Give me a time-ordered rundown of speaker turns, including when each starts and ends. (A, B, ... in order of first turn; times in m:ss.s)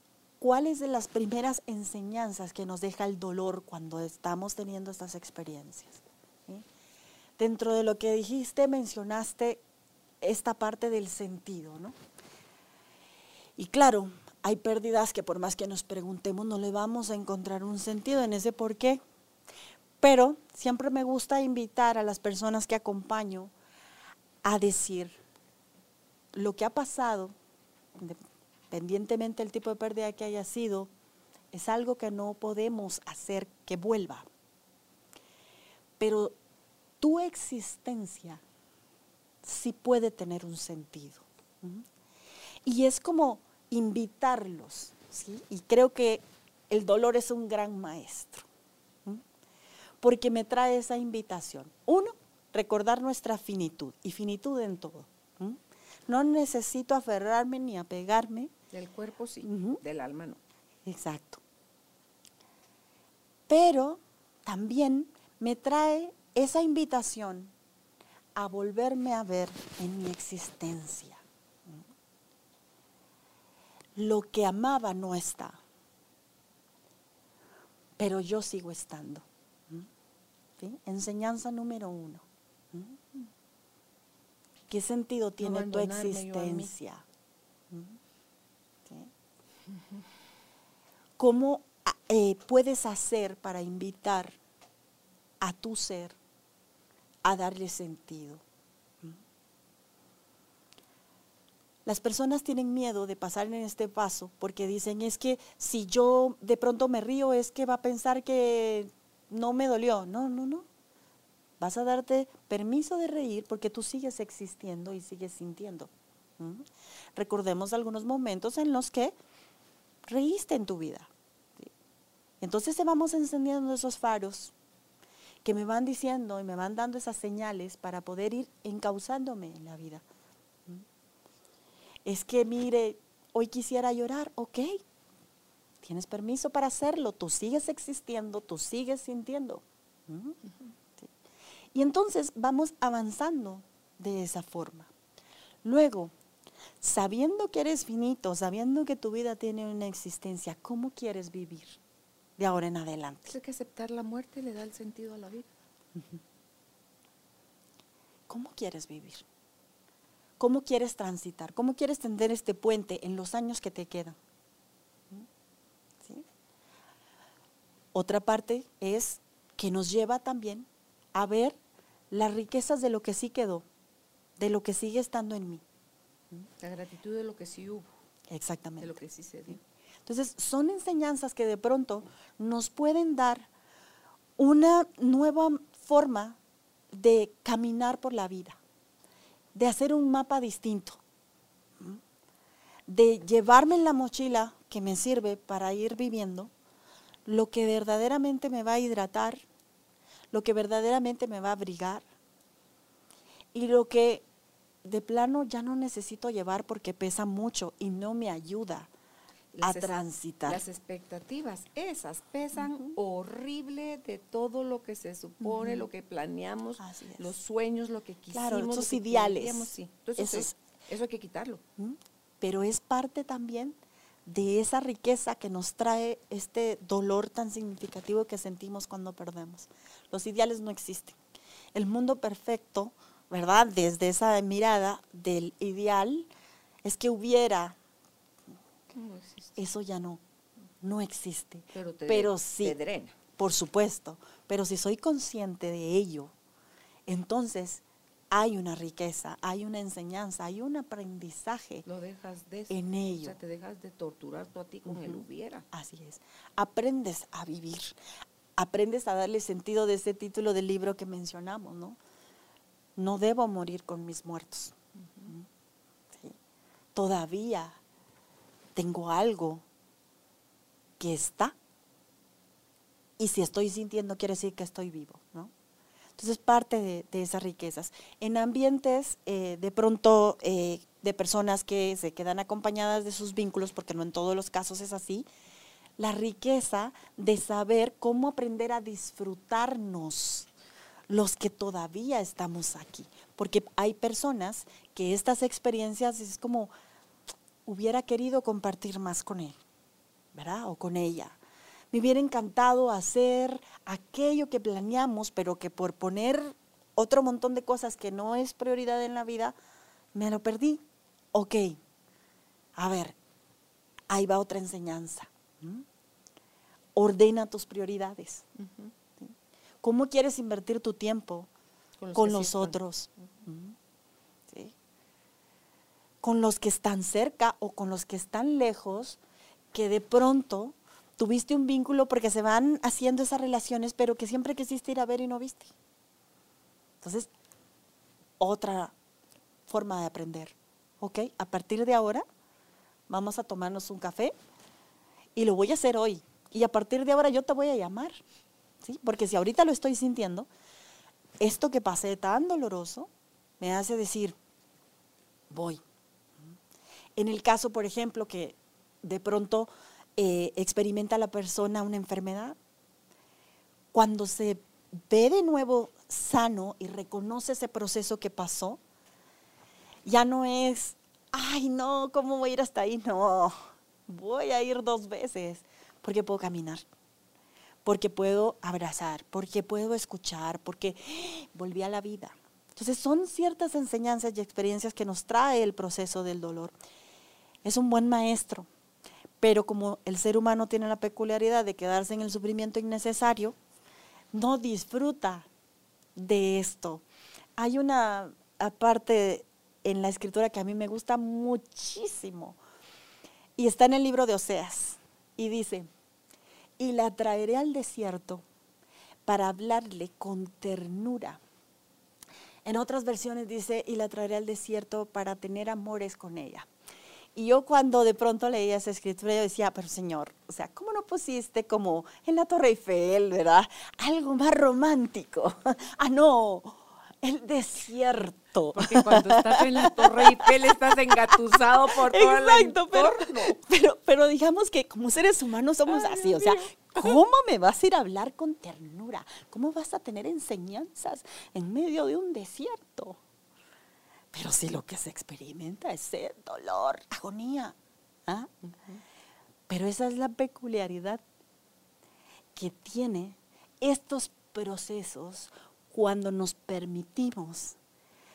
0:00.4-0:06.6 A
0:07.4-0:09.6 A
0:10.2-0:12.0 A
0:13.6-0:19.0 A
0:20.0-0:23.5 A
0:24.4-0:25.2 A
0:26.3-0:27.4 A
0:28.7-0:30.9 A
0:31.5-0:34.3 A
0:36.0-0:36.4 A
0:37.0-0:38.4 A
0:39.4-0:41.9 A
0:42.6-0:48.5 A
0:50.0-0:58.5 A
0:58.7-1:00.4 B
0:59.4-0:59.8 A
1:00.9-1:01.4 A
1:03.5-1:07.5 A
1:08.4-1:11.8 A
1:14.0-1:15.6 A
1:18.0-1:19.9 A
1:20.6-1:23.0 A
1:24.7-1:27.0 A
1:25.4-1:26.7 B
1:27.7-1:28.0 A
1:28.9-1:29.1 A
1:31.2-1:34.4 A
1:35.4-1:36.2 A
1:37.2-1:38.4 A
1:41.8-1:50.7 A
1:51.6-1:59.2 A
2:00.1-2:01.7 A
2:02.4-2:04.5 A
2:05.4-2:10.0 A
2:12.0-2:14.8 A
2:15.8-2:20.4 A
2:21.7-2:24.9 A
2:25.6-2:26.1 A
2:26.8-2:31.8 A
2:32.4-2:33.4 A
2:33.3-2:35.5 B
2:36.0-2:36.2 A
2:38.3-2:39.3 A
2:40.4-2:44.2 A
2:46.0-2:46.3 A
2:47.9-2:51.6 A
2:52.1-2:53.7 A
2:54.4-2:55.6 A
2:56.6-2:57.9 B
2:58.3-2:59.0 A
2:58.8-2:59.6 B
3:00.1-3:03.5 A
3:04.4-3:06.4 A
3:06.9-3:08.6 A
3:09.6-3:11.0 A
3:12.9-3:16.5 A
3:17.3-3:19.4 A
3:20.3-3:22.0 A
3:23.5-3:24.2 A
3:24.8-3:28.9 A
3:29.5-3:29.9 B
3:29.6-3:30.6 A
3:30.5-3:41.6 B
3:32.6-3:33.0 A
3:35.4-3:35.9 A
3:36.8-3:37.3 A
3:38.3-3:40.6 A
3:41.8-3:51.2 A
3:51.7-3:56.3 A
3:56.8-3:57.8 A
3:58.9-3:59.6 B
3:59.6-4:00.2 A
4:00.8-4:02.8 A
4:01.7-4:03.2 B
4:03.4-4:06.3 A
4:07.1-4:11.8 A
4:11.8-4:15.7 B
4:12.7-4:13.4 A
4:14.9-4:18.0 A
4:18.6-4:22.0 A
4:23.0-4:24.8 A
4:27.0-4:27.8 A
4:28.8-4:29.6 A
4:31.0-4:31.6 A
4:33.2-4:35.5 A
4:36.2-4:45.3 A
4:46.0-4:50.5 A
4:51.1-4:56.7 A
4:57.7-4:59.6 A
5:00.3-5:01.4 A
5:01.9-5:09.6 A
5:10.1-5:11.8 A
5:12.8-5:13.2 A
5:14.1-5:15.9 A
5:17.0-5:18.5 A
5:18.6-5:18.9 B
5:19.2-5:21.5 A
5:22.0-5:22.8 B
5:22.2-5:23.8 A
5:24.5-5:24.8 A
5:26.2-5:29.2 A
5:29.7-5:35.7 A
5:37.0-5:37.3 A
5:38.4-5:38.9 A
5:39.7-5:42.2 A
5:43.1-5:44.4 A
5:45.4-5:48.2 A
5:48.8-5:50.5 A
5:51.4-5:54.4 A
5:55.5-5:55.8 A
5:57.2-6:02.6 A
6:03.9-6:08.8 A
6:10.0-6:13.6 A
6:14.1-6:16.9 A
6:17.8-6:26.8 A
6:27.6-6:28.7 A
6:29.4-6:33.6 A
6:34.3-6:35.5 A
6:36.2-6:37.0 A
6:37.6-6:42.6 A
6:43.6-6:45.9 A
6:46.8-6:48.4 A
6:49.3-6:51.4 A
6:52.6-6:56.7 A
6:57.4-7:23.2 A
7:08.7-7:13.6 B
7:15.9-7:17.2 B
7:24.3-7:28.5 A
7:28.6-7:29.0 B
7:29.7-7:31.2 A
7:32.6-7:37.8 A